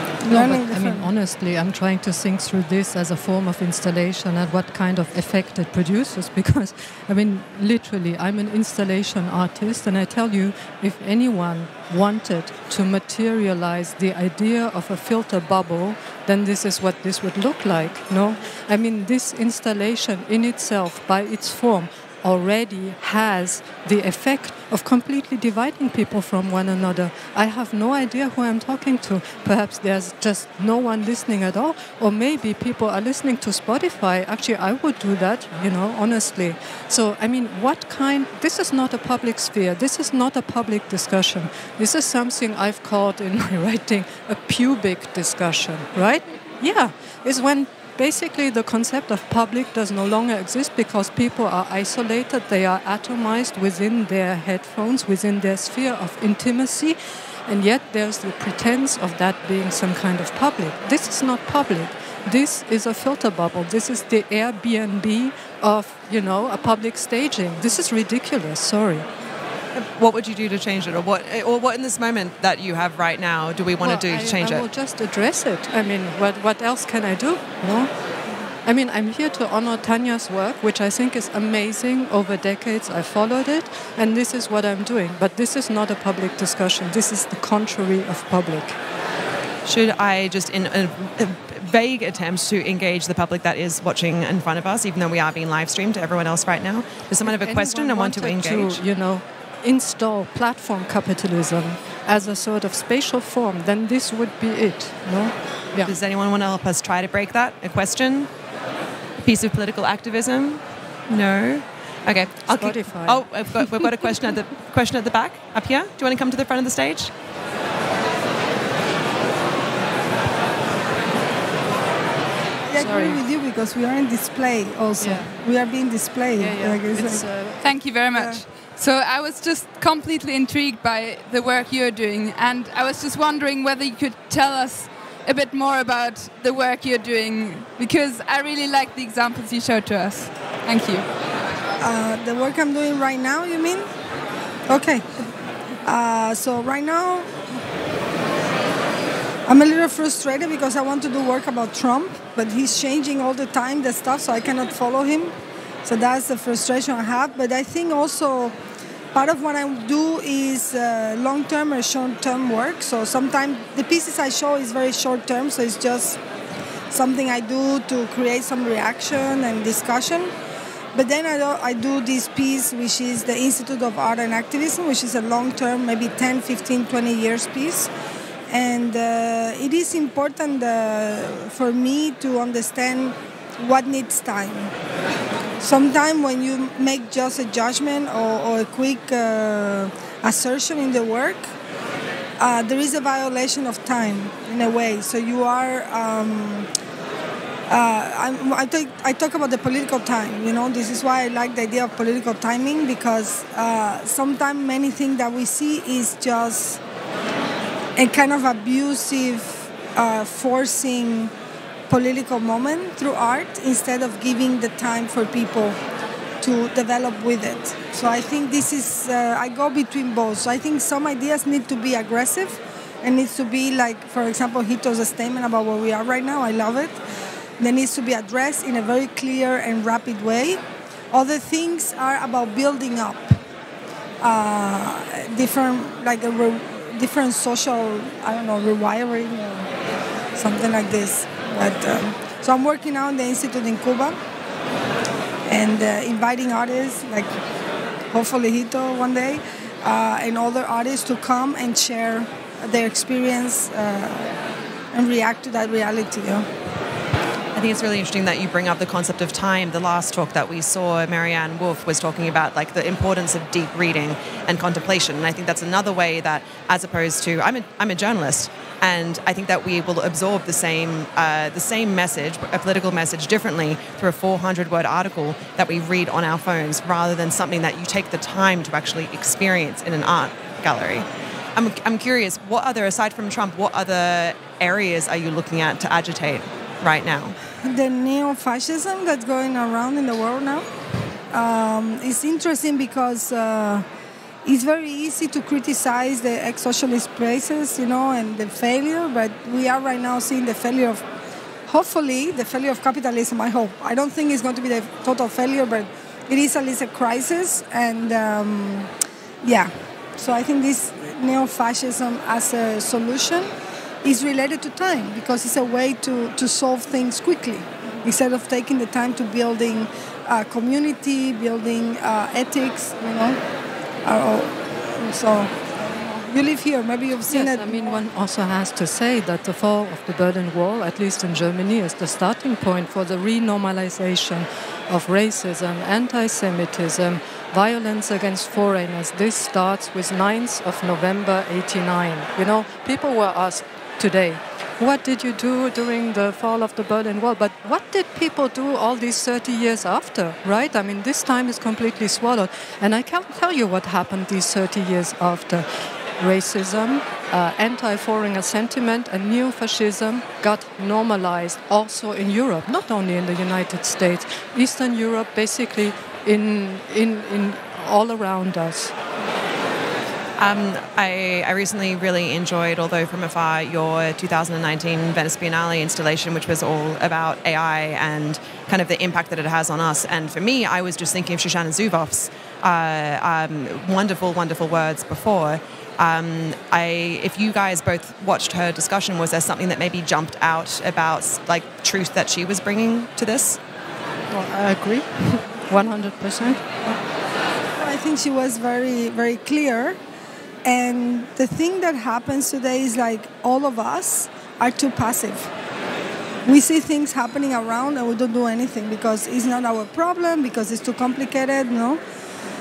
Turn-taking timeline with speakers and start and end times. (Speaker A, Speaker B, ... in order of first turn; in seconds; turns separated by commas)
Speaker A: 0.2-1.1, Speaker B: 0.3-69.1, Speaker C: 69.8-74.7, Speaker B: 73.8-77.9, Speaker B: 78.7-88.8, Speaker C: 89.7-98.8, Speaker B: 97.2-105.9, Speaker C: 105.8-108.3, Speaker C: 109.2-117.1, Speaker B: 112.5-113.2, Speaker A: 122.7-127.3, Speaker B: 122.8-123.2, Speaker B: 125.0-125.4, Speaker B: 126.4-127.6, Speaker D: 127.6-141.1, Speaker A: 128.1-128.4, Speaker A: 141.8-143.9, Speaker A: 144.7-145.1, Speaker A: 145.8-147.3, Speaker A: 149.5-158.6, Speaker A: 159.1-166.2, Speaker A: 166.9-170.3, Speaker A: 170.9-177.9, Speaker A: 178.5-184.7, Speaker A: 185.6-191.5, Speaker A: 192.4-196.7, Speaker A: 197.7-206.8, Speaker A: 208.0-211.3, Speaker A: 211.9-215.8, Speaker A: 216.4-227.0, Speaker A: 227.6-230.6, Speaker A: 231.1-233.4, Speaker A: 234.2-239.7, Speaker A: 240.3-244.2, Speaker A: 245.5-247.3, Speaker A: 248.1-254.4, Speaker A: 254.9-256.5, Speaker C: 257.5-287.4, Speaker A: 287.6-290.7, Speaker A: 291.3-293.9, Speaker A: 294.4-301.0, Speaker A: 301.7-308.9, Speaker A: 309.4-313.5, Speaker A: 314.0-323.4, Speaker A: 324.1-328.0, Speaker B: 327.3-355.7, Speaker B: 356.2-368.9, Speaker C: 370.4-393.6, Speaker B: 394.3-396.6, Speaker A: 397.8-400.0, Speaker A: 400.6-405.5, Speaker A: 406.4-412.0